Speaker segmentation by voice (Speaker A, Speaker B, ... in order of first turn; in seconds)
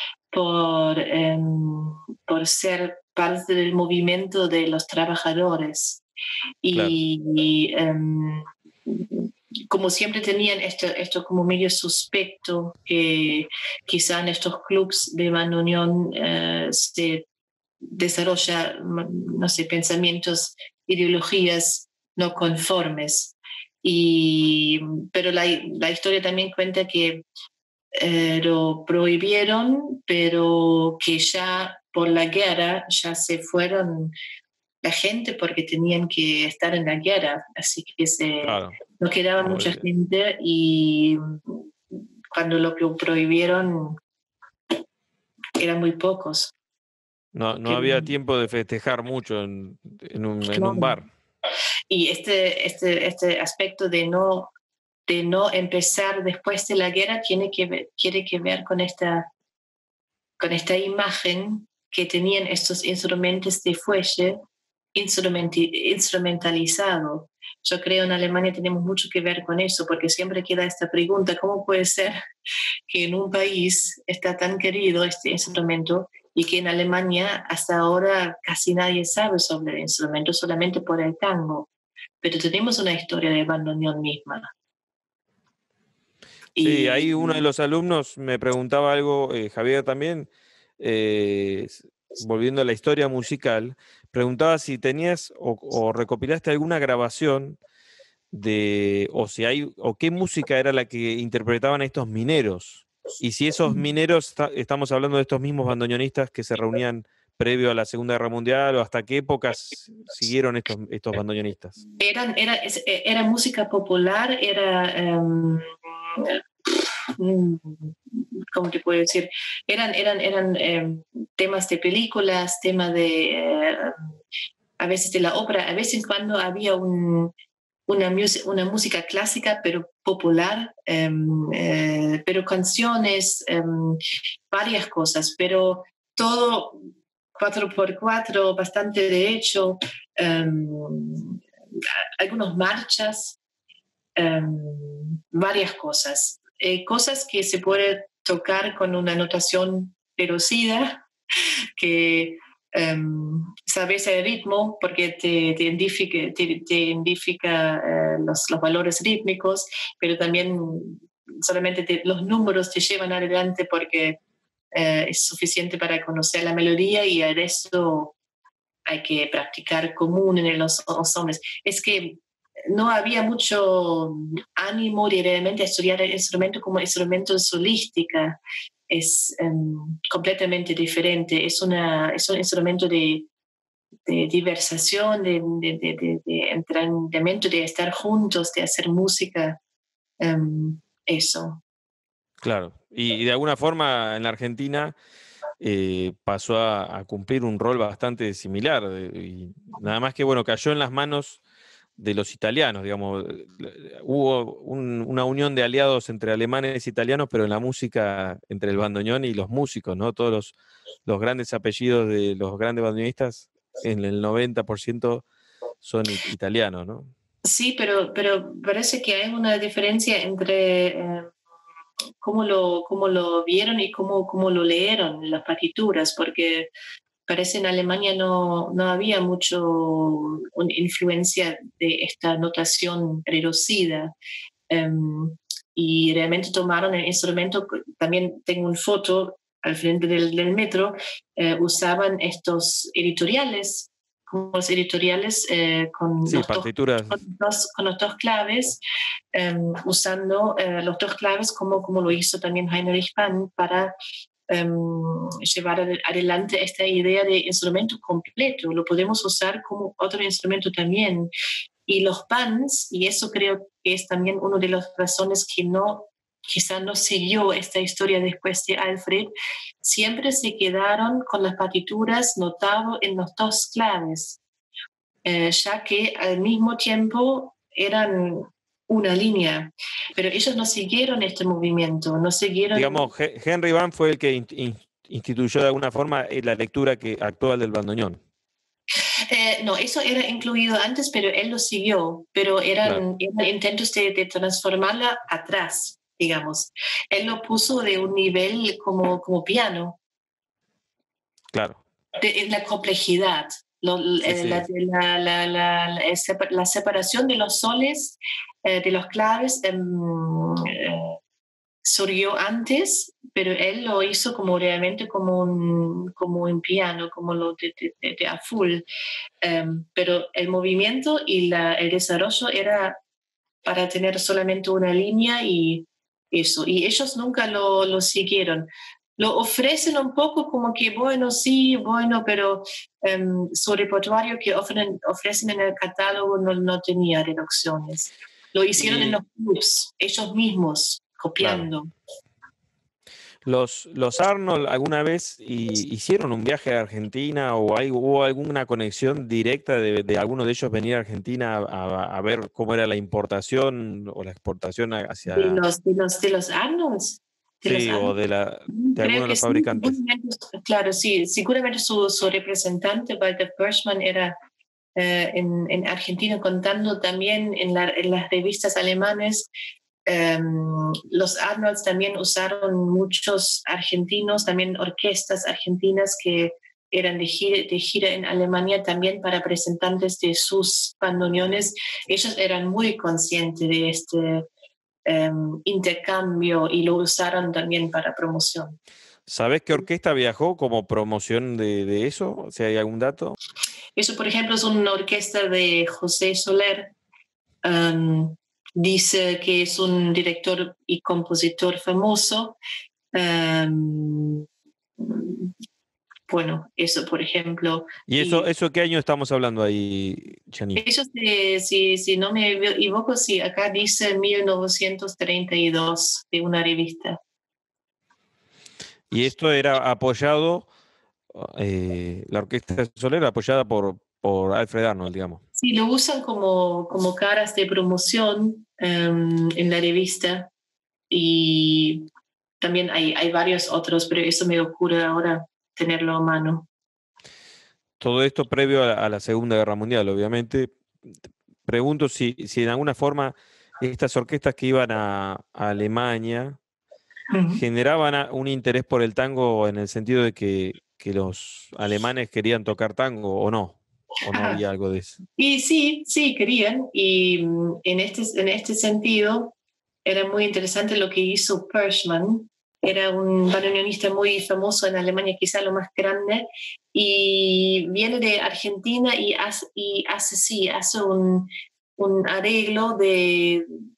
Speaker A: 0.3-6.0, 6.6-17.2, 17.9-27.2, 27.9-34.1, 34.8-41.6, 42.3-44.0, 45.6-46.5, 47.6-48.1, 50.5-51.0, 51.9-54.5, 55.1-59.3, 60.4-64.4, 64.9-72.2, 72.9-81.7, 82.2-84.5, 86.5-87.4, 112.0-124.0, 124.8-127.3, 127.9-134.0, 134.5-141.4, 142.2-143.4, 144.2-151.0, 151.8-164.2, 164.7-168.1, 168.9-172.2, 172.7-178.4, 178.9-183.3, 184.1-189.6, 190.2-191.6, 217.4-221.3, 222.2-226.7, 227.3-234.1, 234.7-248.8, 249.3-253.9, 254.5-261.3, 261.9-269.3, 269.8-274.4, 275.2-283.1, 289.3-300.0, 302.2-311.2, 311.8-318.8, 319.4-323.0, 323.6-328.7, 329.2-341.9, 355.3-358.1, 358.7-364.3, 364.9-369.5, 370.1-384.5, 385.1-388.8, 394.0-396.9, 397.6-402.6, 403.1-404.4, 405.0-405.5, 406.3-408.5, 410.8-417.2, 425.6-430.5, 431.1-432.1, 432.6-436.7, 447.3-447.6, 454.3-454.6, 455.4-459.5, 460.1-473.6
Speaker B: 6.7-7.0, 38.4-38.8, 39.4-39.8, 47.3-51.1, 86.6-97.6, 98.3-111.8, 192.4-194.9, 195.6-201.4, 202.0-210.5, 211.1-215.2, 215.8-217.1, 246.3-247.2, 282.7-288.2, 301.5-301.8, 304.2-304.6, 338.8-339.2, 341.4-341.7, 343.4-355.6, 357.6-360.0, 389.3-393.4, 408.1-410.8, 419.1-420.7, 421.3-425.4, 438.0-441.1, 441.6-446.6, 447.5-455.2